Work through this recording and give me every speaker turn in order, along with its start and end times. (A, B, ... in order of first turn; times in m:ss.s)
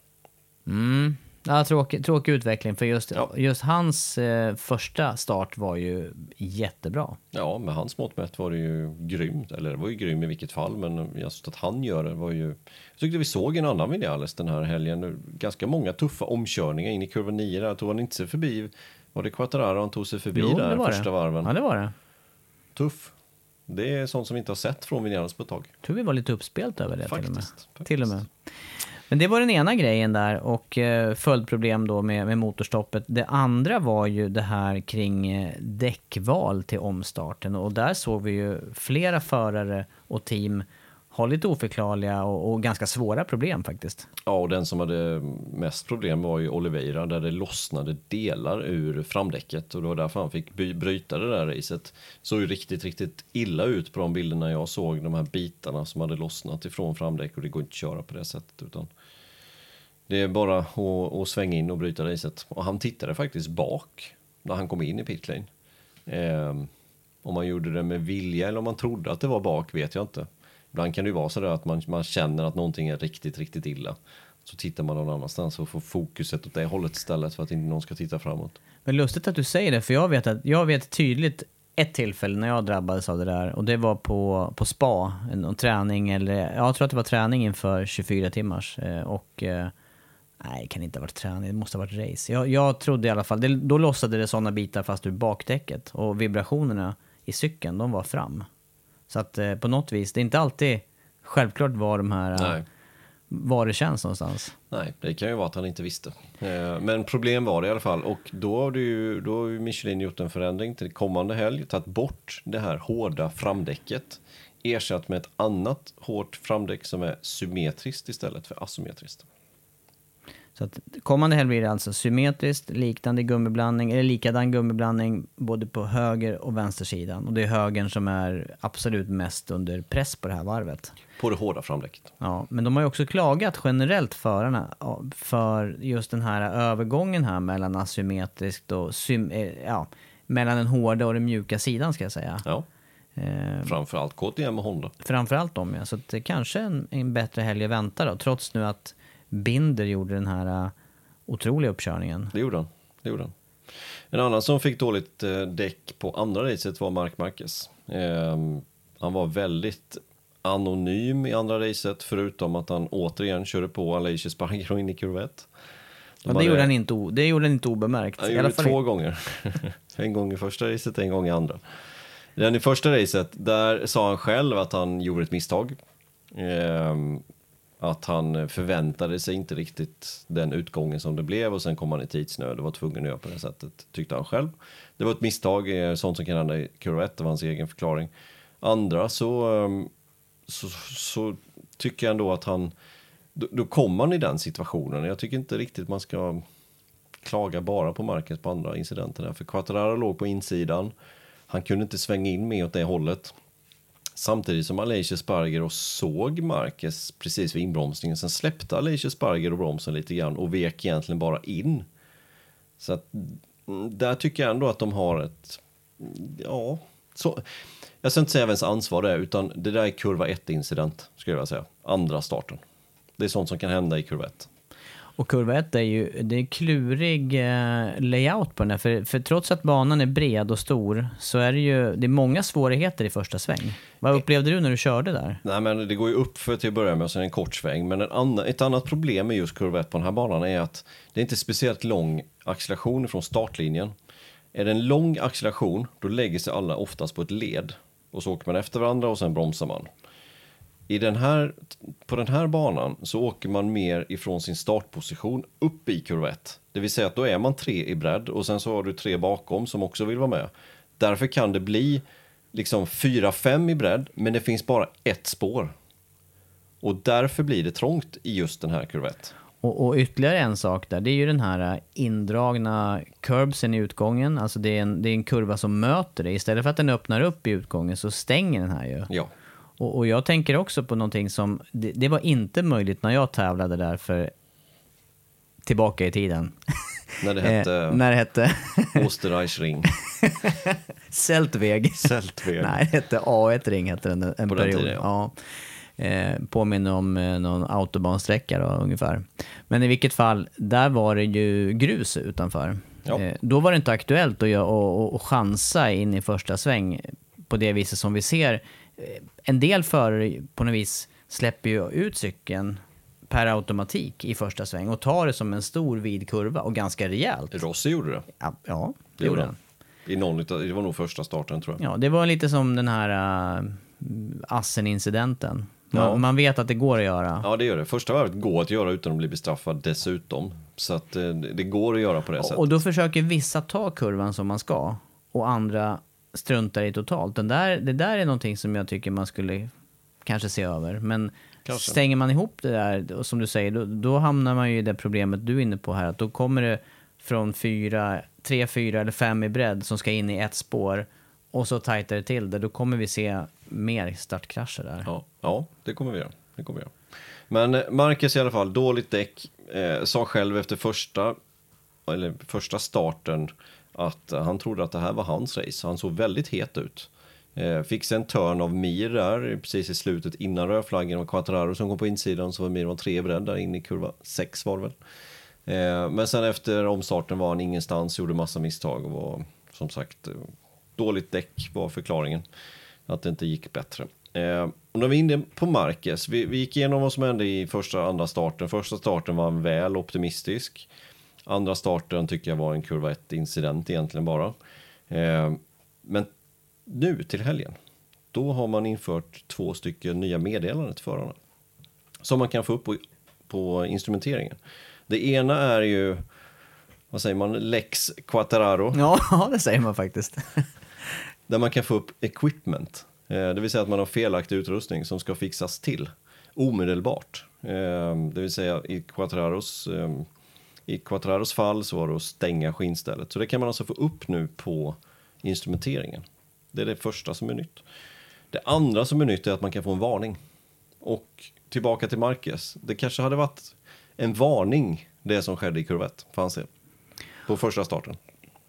0:00.7-0:07.2 A
0:07.3-0:21.5 B
0:20.3-0:21.9 A
0:22.8-0:23.1 B
0:23.7-0:25.7 B
0:25.8-0:28.3 A
0:27.0-0:28.2 B
0:29.1-0:44.1 A
0:44.2-0:58.9 B
1:00.1-1:05.5 B
1:06.1-1:06.7 B
1:07.2-1:18.6 B
1:18.9-1:29.7 A
1:30.4-1:38.5 A
1:39.1-1:42.6 A
1:42.4-1:42.6 B
1:43.3-1:44.6 A
1:44.7-1:59.3 B
2:00.6-2:11.0 A
2:11.2-2:12.1 B
2:12.2-2:22.4 A
2:23.2-2:23.7 A
2:23.6-2:24.9 B
2:25.0-2:30.7 A
2:31.3-2:32.3 A
2:32.3-2:33.3 B
2:34.1-2:45.5 B
2:46.2-2:46.7 B
2:46.3-2:48.8 A
2:48.2-2:51.6 B
2:52.4-2:55.8 B
2:56.3-2:57.2 B
2:57.8-3:09.9 B
3:10.5-3:12.7 B
3:13.4-3:16.4 B
3:17.2-3:20.9 B
3:21.5-3:23.4 B
3:24.2-3:31.9 B
3:32.8-3:37.5 B
3:38.0-3:42.6 B
3:43.2-3:44.5 B
3:45.2-3:55.4 A
3:55.4-4:03.9 B
4:04.5-4:09.9 B
4:10.9-4:25.8 B
4:26.8-4:29.3 B
4:29.6-4:39.1 A
4:39.8-4:44.3 A
4:45.7-4:46.6 A
4:47.2-4:48.0 B
4:47.4-4:49.0 A
4:48.9-4:49.9 B
4:50.2-4:55.4 A
4:52.0-4:52.8 B
4:54.5-4:55.1 B
4:56.0-5:17.6 A
5:17.5-5:18.3 B
5:18.4-5:19.6 A
5:19.2-5:19.5 B
5:20.1-5:21.8 B
5:21.8-5:27.5 A
5:25.9-5:26.2 B
5:27.4-5:32.8 B
5:32.4-5:39.7 A
5:40.2-5:55.1 A
5:41.6-5:42.0 B
5:55.0-5:56.9 B
5:57.5-6:01.4 B
6:02.1-6:15.0 B
6:15.7-6:22.5 B
6:23.1-6:30.9 B
6:31.4-6:34.6 B
6:35.1-6:36.3 B
6:36.9-6:37.8 B
6:38.3-6:41.4 B
6:42.2-6:46.2 B
6:47.1-6:49.0 B
6:48.9-6:50.7 A
6:51.5-7:00.3 B
7:00.9-7:07.8 B
7:08.5-7:10.4 B
7:11.0-7:16.7 B
7:17.5-7:18.2 B